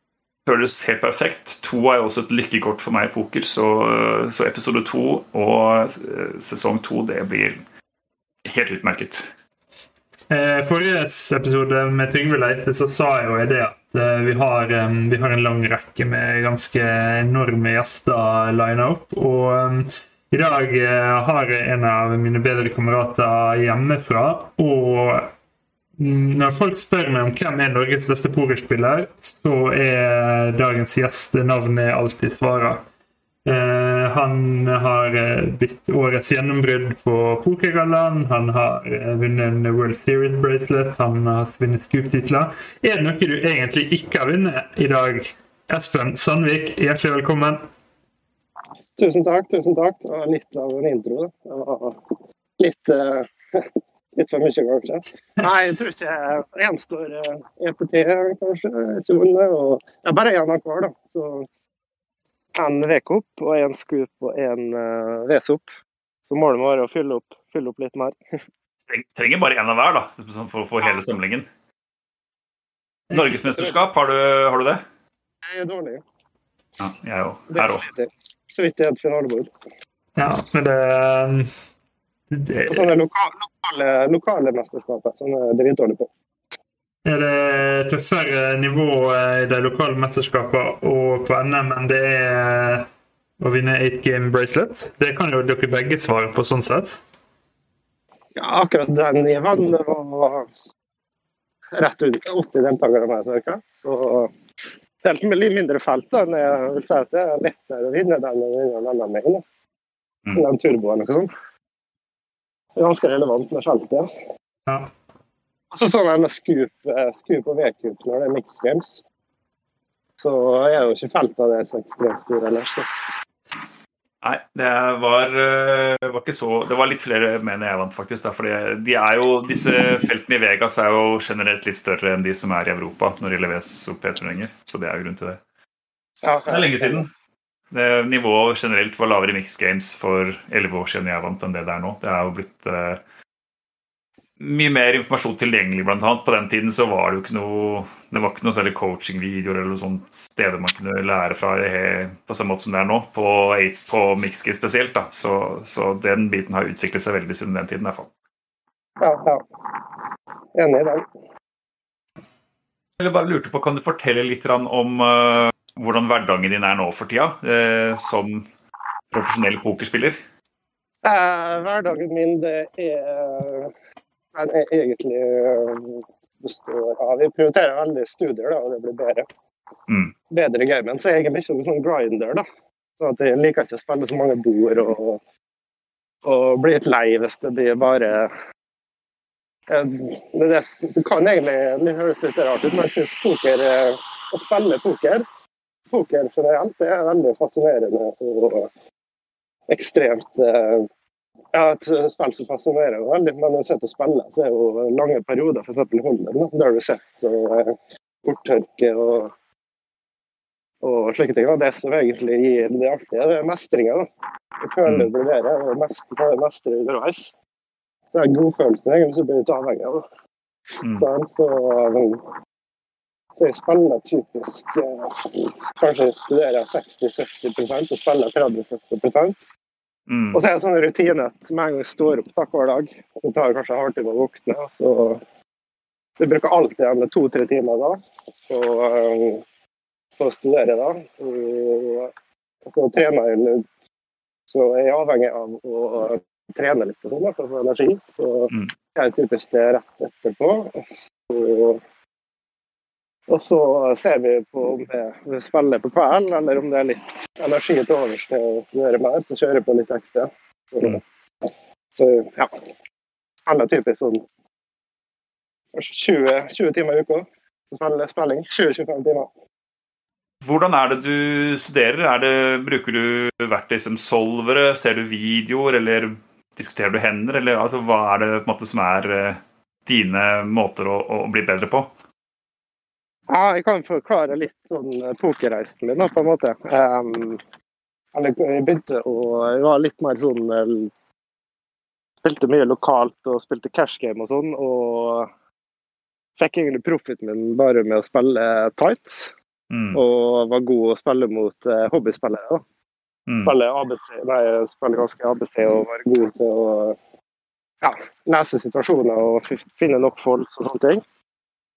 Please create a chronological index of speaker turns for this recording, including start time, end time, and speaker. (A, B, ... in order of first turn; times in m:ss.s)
0:00.4-0:07.6 A
0:08.4-0:09.3 A
0:10.3-0:25.3 B
0:26.0-0:32.8 B
0:33.4-0:47.6 B
0:49.0-1:01.5 C
1:02.6-1:05.6 C
1:06.3-1:08.2 C
1:08.9-1:11.5 A
1:13.1-1:13.4 B
1:13.1-1:14.8 A
1:15.4-1:16.0 C
1:16.8-1:17.8 A
1:17.5-1:19.5 C
1:20.2-1:21.5 B
1:22.3-1:22.9 B
1:22.7-1:26.1 C
1:27.0-1:32.9 B
1:33.4-1:37.0 B
1:38.4-1:40.5 C
1:41.7-1:49.4 C
1:50.3-1:51.3 C
1:52.8-1:54.1 C
1:55.7-1:59.0 C
2:00.2-2:02.8 C
2:04.2-2:15.4 A
2:16.2-2:17.0 C
2:16.5-2:17.1 A
2:17.7-2:23.0 A
2:24.4-2:38.1 A
2:39.0-2:39.9 C
2:40.5-2:41.0 C
2:43.0-2:48.4 A
2:49.1-2:50.2 A
2:51.0-2:53.7 C
2:54.3-2:59.3 C
2:59.9-3:00.1 A
3:00.3-3:02.4 C
3:03.0-3:05.2 C
3:06.2-3:08.3 C
3:09.7-3:15.2 C
3:15.9-3:18.7 C
3:19.7-3:20.9 C
3:21.5-3:29.3 C
3:30.8-3:34.1 C
3:34.6-3:37.3 C
3:38.1-3:40.0 C
3:40.8-3:42.2 C
3:43.4-3:49.5 C
3:50.1-3:50.4 A
3:50.3-3:55.2 C
3:56.2-3:59.4 C
4:00.2-4:02.1 C
4:02.6-4:03.6 C
4:04.5-4:11.8 C
4:13.3-4:21.0 C
4:22.0-4:22.5 C
4:23.4-4:24.2 C
4:25.7-4:29.3 C
4:30.4-4:41.9 A
4:43.3-4:47.4 C
4:48.1-4:50.9 C
4:52.2-4:55.3 C
4:56.4-4:59.3 C
4:59.7-5:00.0 A
4:59.9-5:02.6 C
5:03.3-5:03.5 A
5:03.4-5:07.0 C
5:07.8-5:11.0 C